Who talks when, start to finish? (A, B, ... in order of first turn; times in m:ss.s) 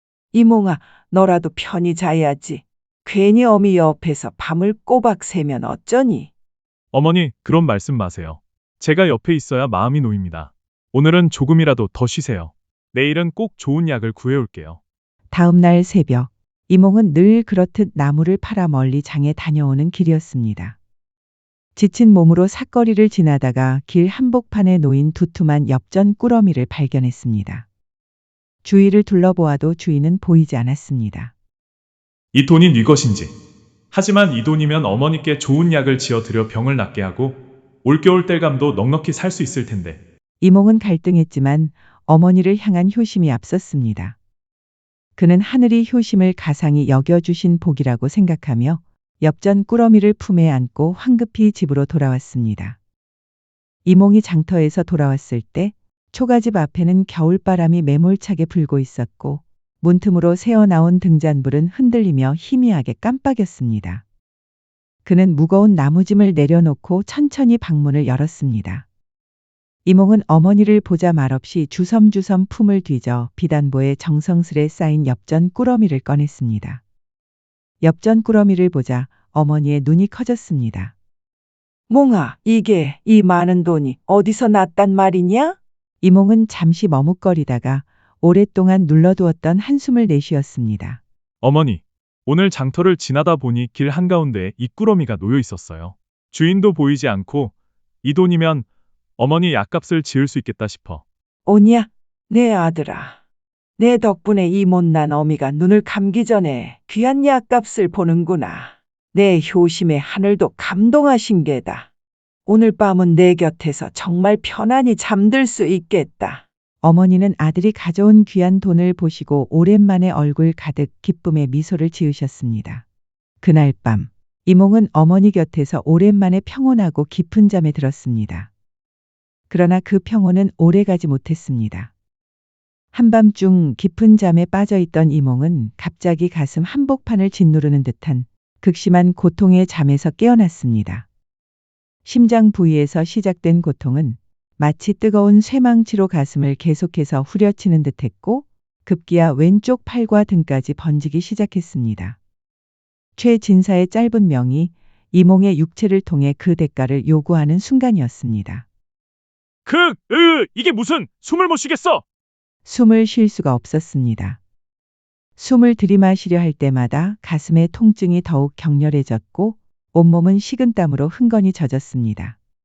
0:00.3-0:06.3 A
0:06.9-0:14.8 B
0:15.3-0:20.8 C
0:21.8-0:27.7 C
0:28.6-0:31.3 C
0:32.3-0:33.3 B
0:33.9-0:40.0 B
0:40.4-0:44.2 C
0:45.2-0:52.8 C
0:53.8-1:04.0 C
1:05.0-1:08.9 C
1:09.8-1:16.8 C
1:17.8-1:21.0 C
1:21.9-1:25.6 A
1:26.0-1:31.0 C
1:31.4-1:38.7 B
1:39.2-1:41.0 B
1:41.5-1:43.2 A
1:43.8-1:51.9 A
1:52.5-1:56.4 A
1:56.8-2:02.8 C
2:03.4-2:08.5 C
2:09.5-2:11.9 C
2:12.9-2:21.1 C
2:22.0-2:32.2 C
2:33.2-2:38.7 C
2:39.7-2:42.0 B
2:42.6-2:44.4 C
2:45.4-2:52.4 C